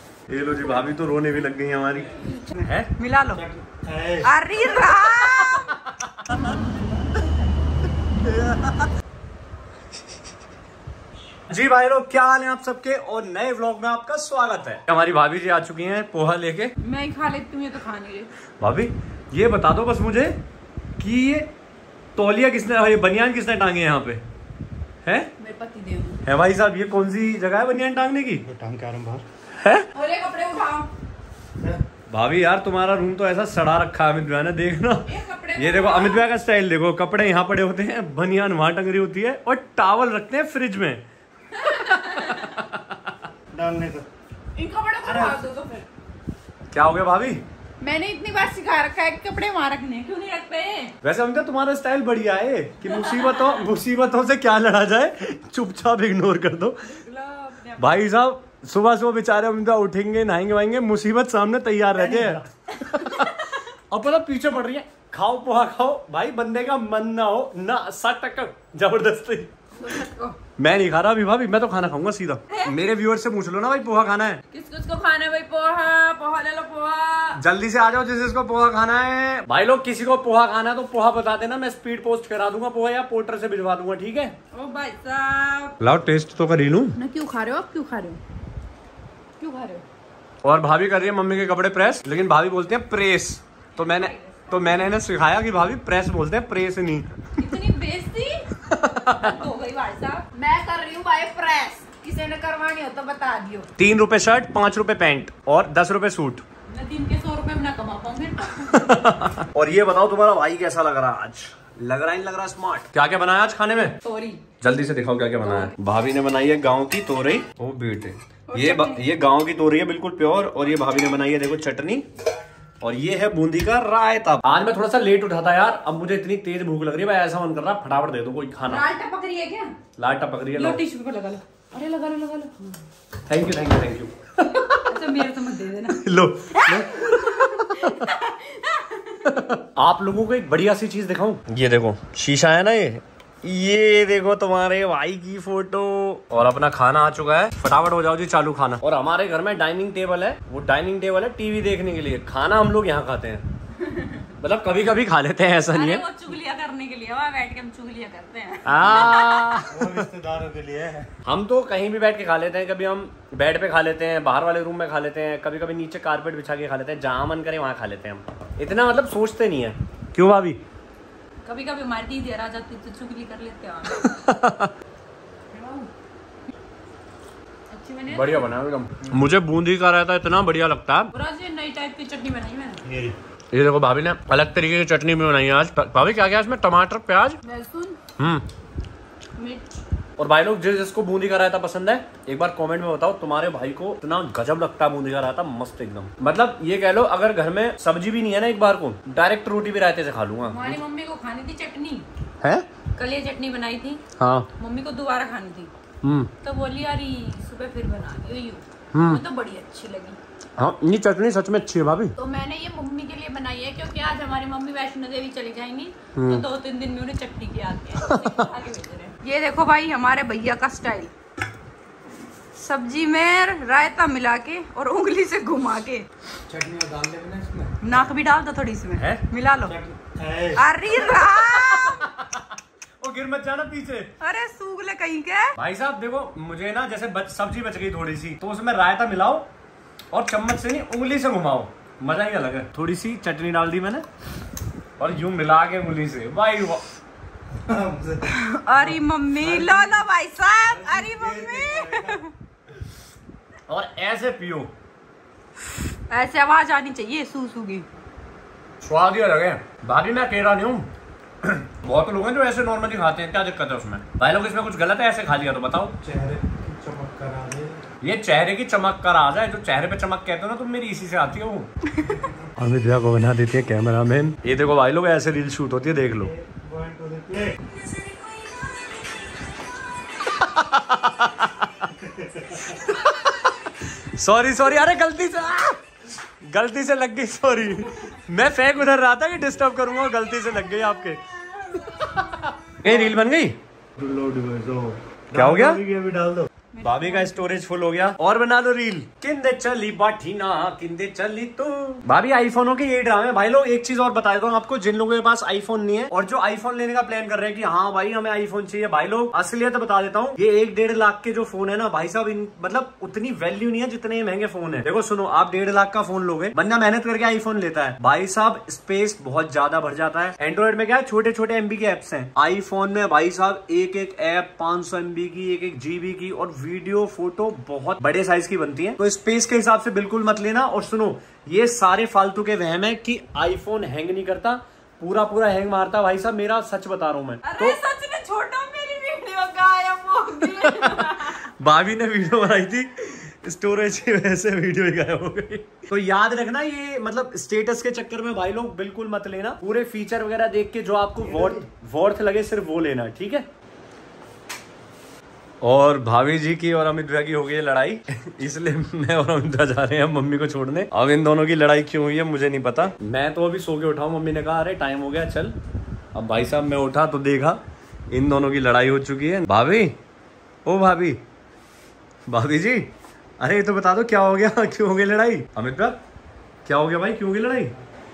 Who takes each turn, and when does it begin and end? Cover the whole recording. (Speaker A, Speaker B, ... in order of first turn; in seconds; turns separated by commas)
Speaker A: 0.3-2.9, Speaker B: 3.0-3.5, Speaker C: 3.4-4.3, Speaker B: 4.2-5.7, Speaker A: 5.1-6.4, Speaker A: 8.2-8.9, Speaker A: 11.5-16.7, Speaker B: 16.8-18.3, Speaker A: 18.6-20.4, Speaker A: 21.0-21.5, Speaker A: 22.2-24.2, Speaker A: 25.0-25.3, Speaker B: 25.4-26.2, Speaker A: 26.2-28.4, Speaker C: 28.4-29.2, Speaker A: 29.6-29.9, Speaker B: 29.9-30.9, Speaker A: 32.1-41.0, Speaker B: 35.1-36.2, Speaker B: 41.6-42.6, Speaker A: 41.6-43.1, Speaker C: 43.5-44.1, Speaker B: 44.6-45.9, Speaker A: 45.1-45.3, Speaker A: 46.7-47.4, Speaker B: 47.8-50.9, Speaker A: 51.0-56.8, Speaker B: 52.8-53.6, Speaker B: 56.9-58.0, Speaker A: 57.8-63.4, Speaker C: 62.0-62.4, Speaker A: 63.9-69.5, Speaker B: 69.8-70.4, Speaker A: 70.6-74.4, Speaker B: 74.5-77.4, Speaker A: 77.3-84.4, Speaker B: 84.5-85.7, Speaker A: 85.8-87.0, Speaker B: 87.0-88.2, Speaker B: 89.4-89.8, Speaker A: 90.4-97.1, Speaker B: 93.8-94.9, Speaker B: 97.4-98.5, Speaker A: 98.7-99.4, Speaker B: 99.0-103.7, Speaker A: 103.8-106.4, Speaker B: 106.7-109.1, Speaker A: 108.6-114.0, Speaker B: 114.0-114.4, Speaker A: 114.6-122.1, Speaker B: 115.4-115.7, Speaker B: 118.5-119.0, Speaker A: 122.8-128.9, Speaker B: 128.7-129.8, Speaker A: 130.0-130.8, Speaker B: 130.5-132.7, Speaker A: 133.3-134.8, Speaker B: 134.6-139.4, Speaker A: 135.9-137.9, Speaker A: 139.2-153.5, Speaker B: 153.9-154.3, Speaker A: 154.4-156.1, Speaker B: 155.7-159.6, Speaker A: 158.7-160.1, Speaker C: 159.7-161.1, Speaker A: 161.2-170.6, Speaker B: 171.4-174.2, Speaker A: 173.9-174.7, Speaker B: 175.5-175.9, Speaker B: 177.7-178.5, Speaker A: 178.1-181.1, Speaker B: 181.1-182.8, Speaker C: 182.9-183.2, Speaker A: 183.5-187.4, Speaker B: 187.4-188.0, Speaker A: 188.2-188.5, Speaker B: 189.4-189.8, Speaker A: 190.2-200.8, Speaker B: 200.5-202.1, Speaker A: 202.4-202.7, Speaker B: 202.9-204.0, Speaker A: 204.2-204.5, Speaker B: 204.6-205.7, Speaker A: 206.0-206.3, Speaker B: 206.4-210.2, Speaker A: 208.9-209.2, Speaker A: 210.6-212.1, Speaker B: 212.2-221.1, Speaker A: 216.2-216.4, Speaker A: 218.0-218.3, Speaker B: 222.6-226.1, Speaker C: 226.5-227.7, Speaker B: 227.8-229.8, Speaker A: 229.0-229.2, Speaker C: 229.7-230.6, Speaker B: 230.5-232.0, Speaker A: 231.0-234.1, Speaker B: 234.2-235.5, Speaker A: 235.6-239.5, Speaker A: 240.1-244.1, Speaker A: 245.0-246.8, Speaker C: 247.7-248.3, Speaker B: 248.3-252.3, Speaker C: 249.4-249.9, Speaker C: 250.7-252.2, Speaker A: 253.7-254.7, Speaker B: 256.1-257.9, Speaker A: 258.8-260.9, Speaker A: 261.4-266.0, Speaker C: 266.0-267.8, Speaker A: 268.0-271.7, Speaker A: 272.6-276.3, Speaker C: 276.3-277.6, Speaker A: 280.2-281.9, Speaker C: 282.0-282.6, Speaker A: 282.6-293.6, Speaker C: 294.0-296.5, Speaker A: 295.3-295.8, Speaker B: 296.7-297.4, Speaker A: 296.8-337.8, Speaker B: 337.4-341.4, Speaker A: 340.6-353.5, Speaker A: 355.6-365.6, Speaker A: 366.1-370.0, Speaker A: 370.7-371.2, Speaker A: 372.3-376.0, Speaker A: 376.6-377.7